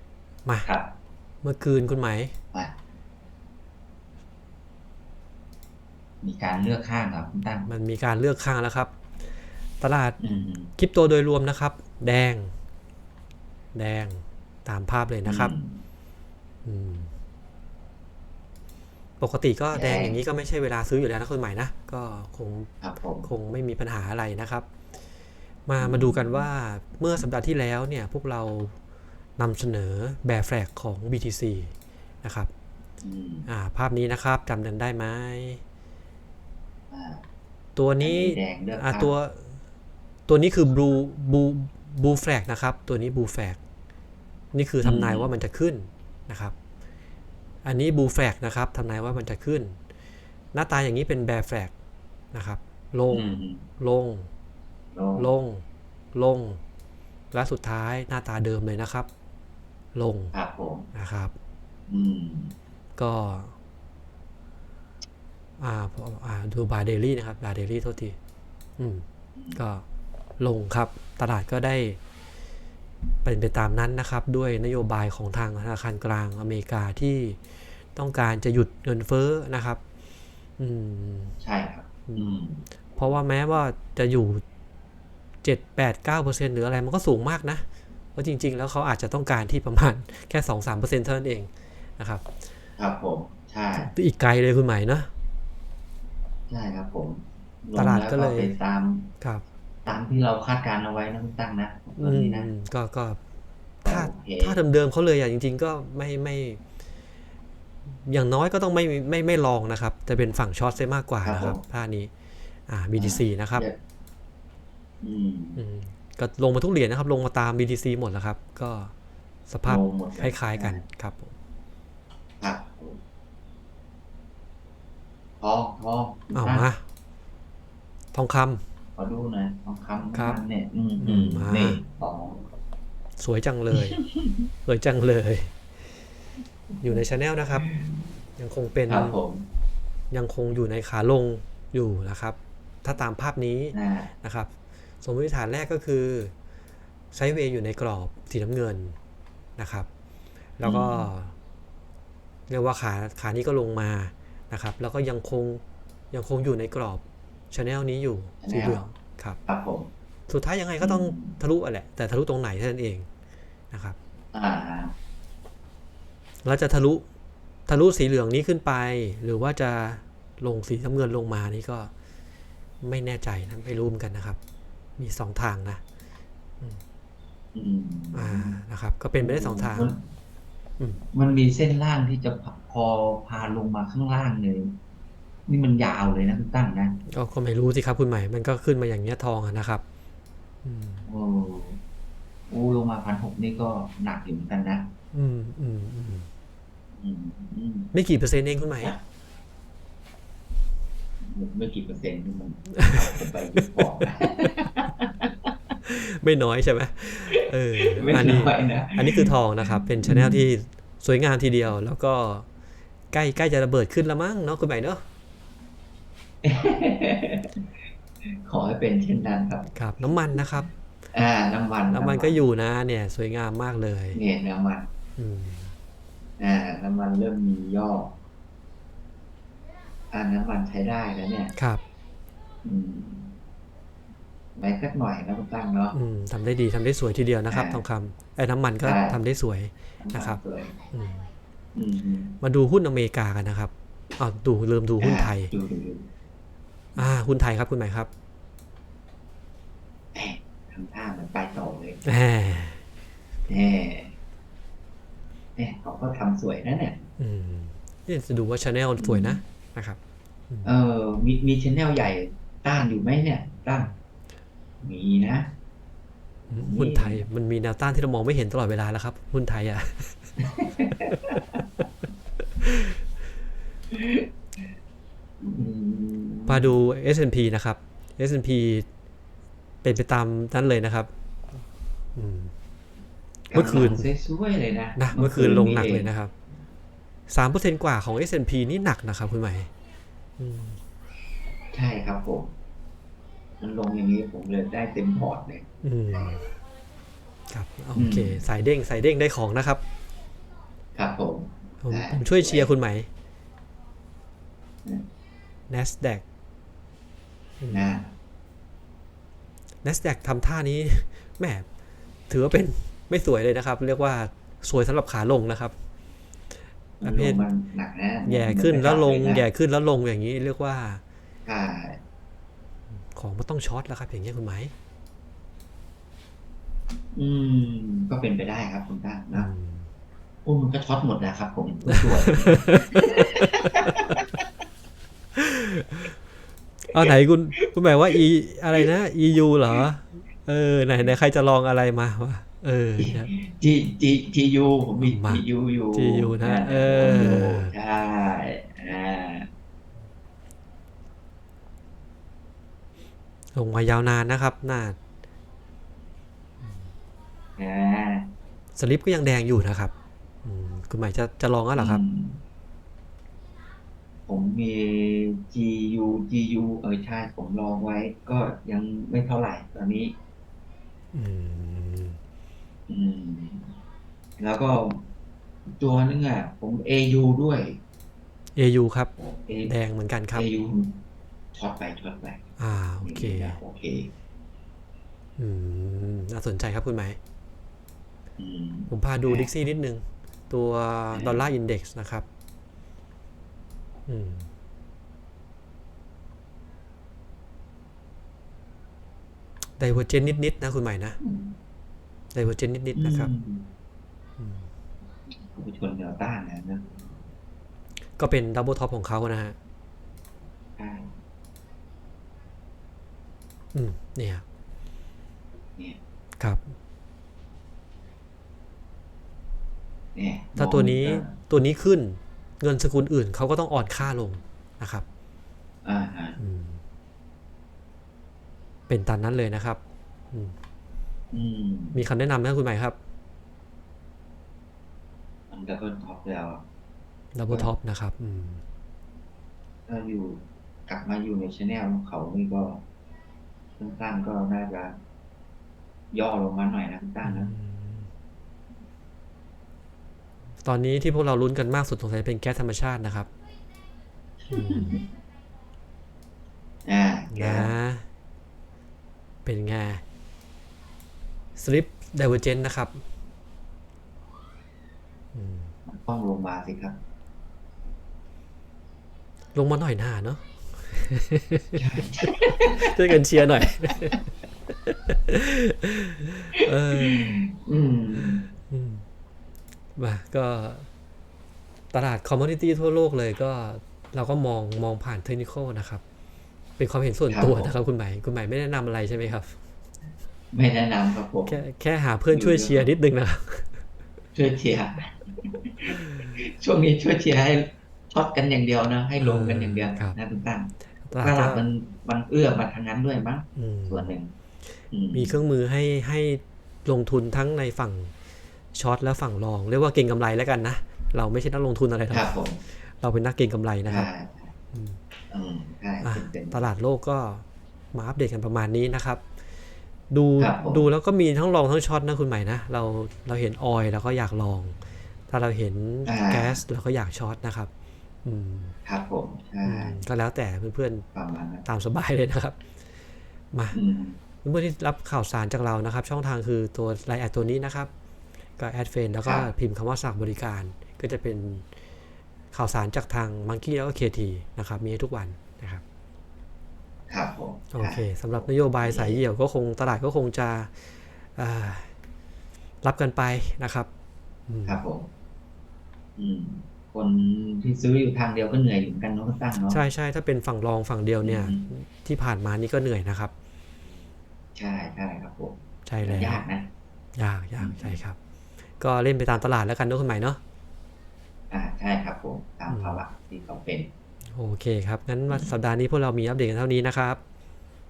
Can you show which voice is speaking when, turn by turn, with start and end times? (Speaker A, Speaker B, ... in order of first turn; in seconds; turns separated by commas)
Speaker A: 0.7-0.9, Speaker B: 1.4-2.3, Speaker A: 6.2-7.7, Speaker B: 7.7-8.9, Speaker B: 9.8-10.2, Speaker A: 10.2-10.7, Speaker B: 10.8-12.5, Speaker B: 13.7-15.5, Speaker A: 15.2-15.8, Speaker B: 16.6-17.1, Speaker B: 19.2-22.7, Speaker A: 19.7-20.2, Speaker A: 22.8-23.3, Speaker B: 23.2-24.7, Speaker B: 25.6-28.7, Speaker A: 25.8-26.4, Speaker B: 29.4-32.5, Speaker A: 33.0-33.5, Speaker B: 33.5-35.6, Speaker A: 36.9-37.2, Speaker B: 37.8-39.5, Speaker A: 38.0-39.1, Speaker B: 40.3-43.6, Speaker B: 44.5-46.5, Speaker A: 44.8-45.3, Speaker B: 47.6-49.8, Speaker B: 50.5-51.7, Speaker B: 52.3-53.3, Speaker A: 53.1-53.7, Speaker B: 53.8-54.3, Speaker A: 54.9-55.3, Speaker B: 55.1-56.6, Speaker B: 57.3-59.1, Speaker B: 59.9-60.3, Speaker A: 60.3-60.9, Speaker B: 60.9-61.3, Speaker A: 61.9-62.5, Speaker B: 63.0-63.5, Speaker B: 65.6-68.2, Speaker B: 68.8-69.8, Speaker B: 70.4-72.0, Speaker B: 73.2-77.4, Speaker B: 77.9-79.8, Speaker B: 80.6-81.3, Speaker A: 81.4-82.6, Speaker B: 83.0-84.4, Speaker B: 85.4-87.6, Speaker B: 88.1-92.2, Speaker A: 92.8-93.9, Speaker B: 93.8-95.1, Speaker A: 96.5-99.1, Speaker B: 97.8-98.5, Speaker A: 99.8-102.5, Speaker B: 102.0-103.2, Speaker A: 103.8-104.5, Speaker B: 103.8-106.6, Speaker B: 108.0-112.1, Speaker A: 111.2-111.6, Speaker B: 112.7-113.6, Speaker A: 113.0-113.8, Speaker A: 115.0-115.6, Speaker B: 115.5-118.9, Speaker B: 119.5-121.3, Speaker A: 119.7-120.8, Speaker A: 122.4-123.0, Speaker A: 125.4-126.7, Speaker B: 126.3-126.8, Speaker B: 128.1-128.6, Speaker A: 128.9-132.4, Speaker B: 130.1-130.4, Speaker B: 131.0-131.8, Speaker B: 133.2-134.0, Speaker A: 133.8-134.3, Speaker B: 134.7-135.6, Speaker B: 136.8-137.6, Speaker A: 137.6-138.0, Speaker B: 138.4-139.2, Speaker A: 138.9-139.5, Speaker B: 140.1-144.5, Speaker A: 143.7-144.1, Speaker B: 145.0-146.3, Speaker B: 147.1-148.9, Speaker B: 149.6-149.9, Speaker B: 150.6-151.3, Speaker A: 150.6-151.1, Speaker B: 152.5-159.4, Speaker A: 158.4-158.8, Speaker A: 159.5-159.9, Speaker B: 160.3-163.1, Speaker A: 160.8-161.4, Speaker A: 164.3-164.9, Speaker B: 166.4-167.0, Speaker B: 167.7-171.9, Speaker B: 172.8-174.4, Speaker B: 175.0-175.8, Speaker A: 177.5-178.6, Speaker B: 178.1-179.9, Speaker A: 179.2-180.0, Speaker A: 181.1-184.8, Speaker A: 185.5-187.0, Speaker B: 187.1-189.8, Speaker B: 190.6-191.1, Speaker A: 191.1-191.8, Speaker A: 192.5-194.9, Speaker B: 195.1-196.3, Speaker A: 197.0-197.9, Speaker B: 197.9-198.9, Speaker A: 201.2-205.2, Speaker B: 205.8-212.4, Speaker A: 207.8-209.3, Speaker A: 210.0-210.4, Speaker B: 213.1-215.0, Speaker A: 216.4-217.6, Speaker A: 218.4-220.4, Speaker B: 219.8-220.7, Speaker A: 221.1-222.4, Speaker B: 221.9-224.2, Speaker A: 224.1-224.9, Speaker B: 225.2-225.7, Speaker A: 226.4-228.2, Speaker A: 230.1-231.5, Speaker B: 231.6-231.8, Speaker A: 232.6-233.3, Speaker A: 234.6-236.0, Speaker B: 235.9-240.4, Speaker A: 237.5-237.8, Speaker A: 238.8-239.2, Speaker A: 240.0-240.7, Speaker B: 240.9-241.3, Speaker A: 241.7-242.4, Speaker B: 242.4-245.5, Speaker A: 245.0-246.1, Speaker B: 246.9-248.1, Speaker A: 250.1-252.1, Speaker B: 252.0-252.8, Speaker A: 253.5-254.1, Speaker A: 255.6-257.1, Speaker B: 257.2-260.0, Speaker A: 259.0-259.4, Speaker A: 260.6-263.9, Speaker A: 264.8-265.5, Speaker B: 266.5-270.3, Speaker A: 266.5-267.2, Speaker A: 270.4-271.6, Speaker B: 272.6-273.0, Speaker A: 273.9-274.2, Speaker A: 275.4-276.8, Speaker B: 276.5-278.9, Speaker B: 279.8-281.1, Speaker B: 282.1-282.5, Speaker A: 283.5-286.1, Speaker B: 283.5-284.1, Speaker B: 284.9-286.3, Speaker B: 287.3-289.7, Speaker B: 290.4-290.8, Speaker A: 291.7-292.5, Speaker A: 293.6-295.7, Speaker B: 295.8-296.5, Speaker B: 297.5-299.8, Speaker A: 297.9-298.4, Speaker A: 300.9-302.7, Speaker B: 301.8-303.1, Speaker B: 305.7-306.2, Speaker B: 307.6-308.0, Speaker A: 307.7-308.1, Speaker B: 309.8-311.6, Speaker B: 312.3-315.7, Speaker B: 317.0-317.4, Speaker A: 317.0-319.4, Speaker B: 318.2-321.0, Speaker A: 321.4-322.0, Speaker B: 323.1-324.7, Speaker A: 327.1-329.5, Speaker B: 329.3-329.9, Speaker A: 330.4-334.2, Speaker B: 332.2-333.9, Speaker B: 335.3-336.1, Speaker B: 336.9-343.3, Speaker A: 343.0-349.5, Speaker B: 345.0-347.7, Speaker B: 353.5-355.0, Speaker A: 357.6-358.3, Speaker B: 358.8-359.9, Speaker B: 360.4-362.0, Speaker A: 361.7-362.4, Speaker A: 364.3-370.1, Speaker B: 371.1-372.2, Speaker A: 372.9-373.8, Speaker A: 374.4-375.1, Speaker A: 375.6-377.8, Speaker B: 378.6-379.1, Speaker A: 379.2-379.7, Speaker B: 379.6-380.5, Speaker A: 380.3-381.0, Speaker A: 381.5-382.4, Speaker B: 382.6-383.6, Speaker A: 383.0-384.1, Speaker B: 385.4-387.2, Speaker A: 388.4-389.5, Speaker B: 388.9-392.2, Speaker A: 391.1-391.4, Speaker B: 394.1-394.5, Speaker B: 399.8-401.2, Speaker A: 401.2-401.5, Speaker B: 402.3-403.3, Speaker A: 402.9-403.7, Speaker B: 404.4-404.7, Speaker A: 405.4-406.9, Speaker B: 408.2-409.5, Speaker A: 410.8-411.1, Speaker B: 413.7-414.4, Speaker A: 420.1-421.4, Speaker B: 420.6-425.0, Speaker A: 425.8-426.4, Speaker B: 426.4-426.8, Speaker B: 428.9-429.8, Speaker A: 431.3-432.0, Speaker B: 431.9-432.9, Speaker A: 435.5-436.6, Speaker B: 437.3-438.6, Speaker A: 439.9-442.8, Speaker A: 443.8-445.0, Speaker A: 446.1-447.5, Speaker B: 447.2-448.1, Speaker B: 450.6-453.3, Speaker A: 454.5-455.1, Speaker B: 454.5-455.0, Speaker A: 456.9-457.7, Speaker B: 457.3-458.0, Speaker B: 459.4-460.0, Speaker B: 461.6-463.0, Speaker B: 465.3-465.7, Speaker A: 465.9-467.0, Speaker B: 469.5-471.8, Speaker A: 471.8-472.9, Speaker B: 472.6-474.2, Speaker B: 474.9-477.4, Speaker A: 477.0-478.5, Speaker B: 478.7-479.0, Speaker B: 480.0-480.9, Speaker B: 481.9-486.0, Speaker B: 486.8-489.5, Speaker A: 487.3-487.7, Speaker A: 490.5-491.6, Speaker B: 491.4-493.7, Speaker A: 492.3-492.9, Speaker A: 494.3-504.3, Speaker B: 499.2-500.2, Speaker B: 501.1-501.6, Speaker B: 503.6-504.1, Speaker A: 504.9-505.4, Speaker B: 505.1-508.1, Speaker B: 508.7-514.1, Speaker A: 512.1-512.6, Speaker A: 513.9-514.5, Speaker B: 514.7-515.0, Speaker A: 515.3-516.7, Speaker B: 516.0-519.2, Speaker B: 520.1-524.8, Speaker A: 520.4-520.9, Speaker B: 525.3-527.7, Speaker A: 526.0-526.6, Speaker B: 528.2-528.8, Speaker A: 528.9-530.0, Speaker B: 529.6-531.0, Speaker A: 531.1-531.6, Speaker B: 531.6-532.6, Speaker B: 533.5-533.8, Speaker A: 533.7-534.2, Speaker B: 534.4-537.9, Speaker B: 538.6-541.7, Speaker A: 539.2-539.5, Speaker B: 542.5-545.8, Speaker A: 547.1-548.0, Speaker B: 547.7-551.9, Speaker A: 548.8-549.2, Speaker B: 552.8-553.9, Speaker B: 554.5-554.8, Speaker A: 554.6-555.1, Speaker A: 556.2-559.8, Speaker B: 559.7-563.3, Speaker A: 561.2-561.7, Speaker A: 564.5-566.7, Speaker B: 565.9-566.4, Speaker B: 567.1-568.2, Speaker A: 567.6-568.0, Speaker B: 568.8-570.4, Speaker A: 571.5-573.9, Speaker B: 572.7-573.0, Speaker B: 574.3-577.2